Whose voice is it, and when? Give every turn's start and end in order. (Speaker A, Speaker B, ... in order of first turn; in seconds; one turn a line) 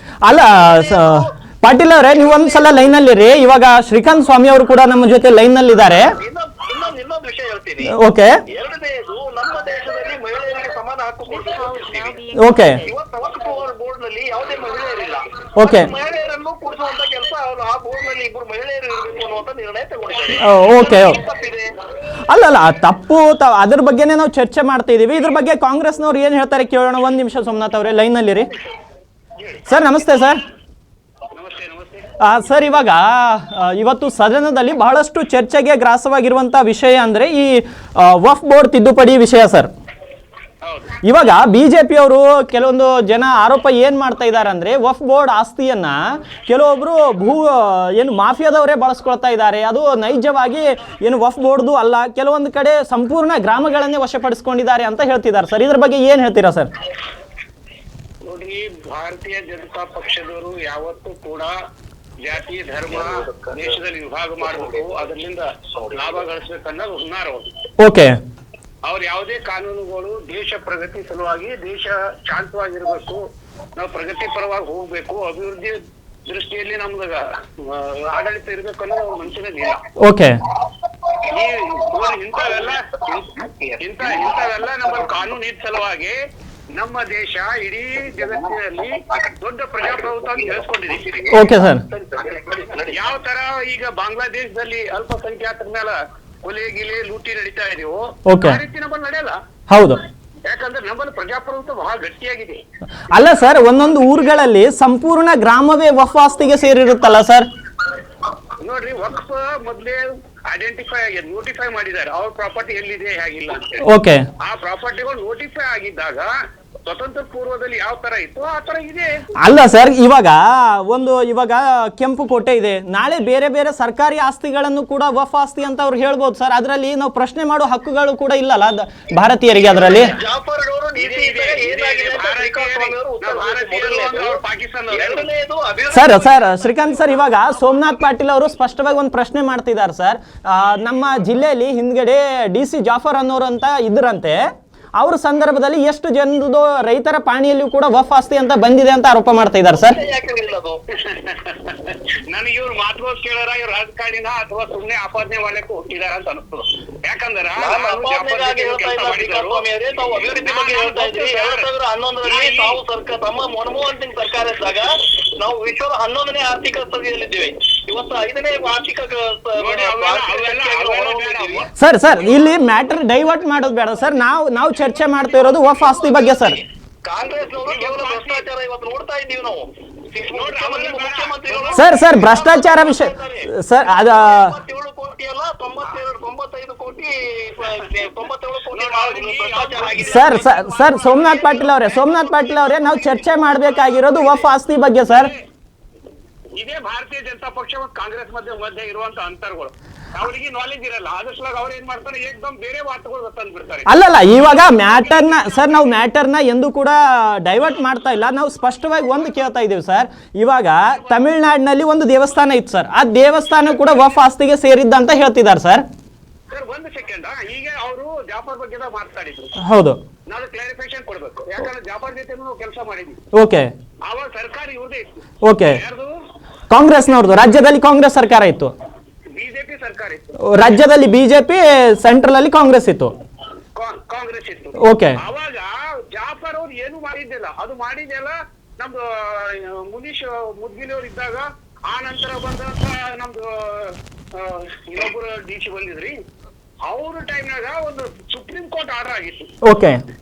Speaker A: 0.2-6.1
Speaker B: 0.3-1.3
Speaker B: 2.2-2.7
Speaker B: 6.2-7.9
Speaker A: 7.9-8.4
Speaker B: 8.5-21.7
Speaker A: 12.4-12.8
Speaker A: 15.6-15.9
Speaker A: 20.4-21.2
Speaker A: 22.3-28.5
Speaker C: 29.4-29.7
Speaker A: 29.7-30.4
Speaker C: 31.3-32.0
Speaker A: 32.2-39.7
Speaker C: 40.6-40.9
Speaker A: 41.0-56.7
Speaker C: 58.2-61.5
Speaker C: 62.2-67.5
Speaker A: 67.8-68.2
Speaker C: 68.8-73.2
Speaker C: 73.8-79.8
Speaker A: 80.0-80.4
Speaker C: 81.2-86.2
Speaker B: 83.4-83.8
Speaker C: 86.8-91.2
Speaker B: 91.0-93.0
Speaker A: 91.3-91.8
Speaker C: 92.9-99.4
Speaker A: 98.3-98.6
Speaker A: 99.7-100.0
Speaker C: 100.5-102.6
Speaker A: 103.1-107.5
Speaker C: 108.6-113.9
Speaker A: 113.8-114.3
Speaker C: 114.4-116.3
Speaker C: 116.8-119.1
Speaker A: 119.4-130.2
Speaker B: 129.6-136.6
Speaker C: 131.0-135.3
Speaker A: 135.9-144.4
Speaker A: 145.0-150.0
Speaker B: 149.8-150.8
Speaker C: 151.1-159.7
Speaker B: 157.6-171.7
Speaker C: 160.2-161.7
Speaker C: 162.2-162.8
Speaker C: 169.6-171.7
Speaker A: 171.8-176.6
Speaker B: 175.0-190.3
Speaker C: 177.7-178.5
Speaker C: 180.3-182.0
Speaker A: 181.8-184.5
Speaker C: 188.7-191.8
Speaker A: 190.0-195.3
Speaker B: 191.2-191.8
Speaker C: 194.1-194.4
Speaker C: 195.1-195.4
Speaker C: 196.5-206.0
Speaker A: 203.9-215.8
Speaker C: 210.9-211.2
Speaker C: 216.5-219.6
Speaker A: 219.6-220.0
Speaker C: 220.3-223.2
Speaker A: 223.3-223.7
Speaker C: 224.0-225.1
Speaker A: 225.4-225.8
Speaker C: 225.7-226.2
Speaker A: 226.7-228.7
Speaker C: 229.3-230.3
Speaker A: 230.4-233.1
Speaker C: 233.8-246.2
Speaker A: 234.8-235.2
Speaker C: 246.9-249.5
Speaker A: 249.6-250.0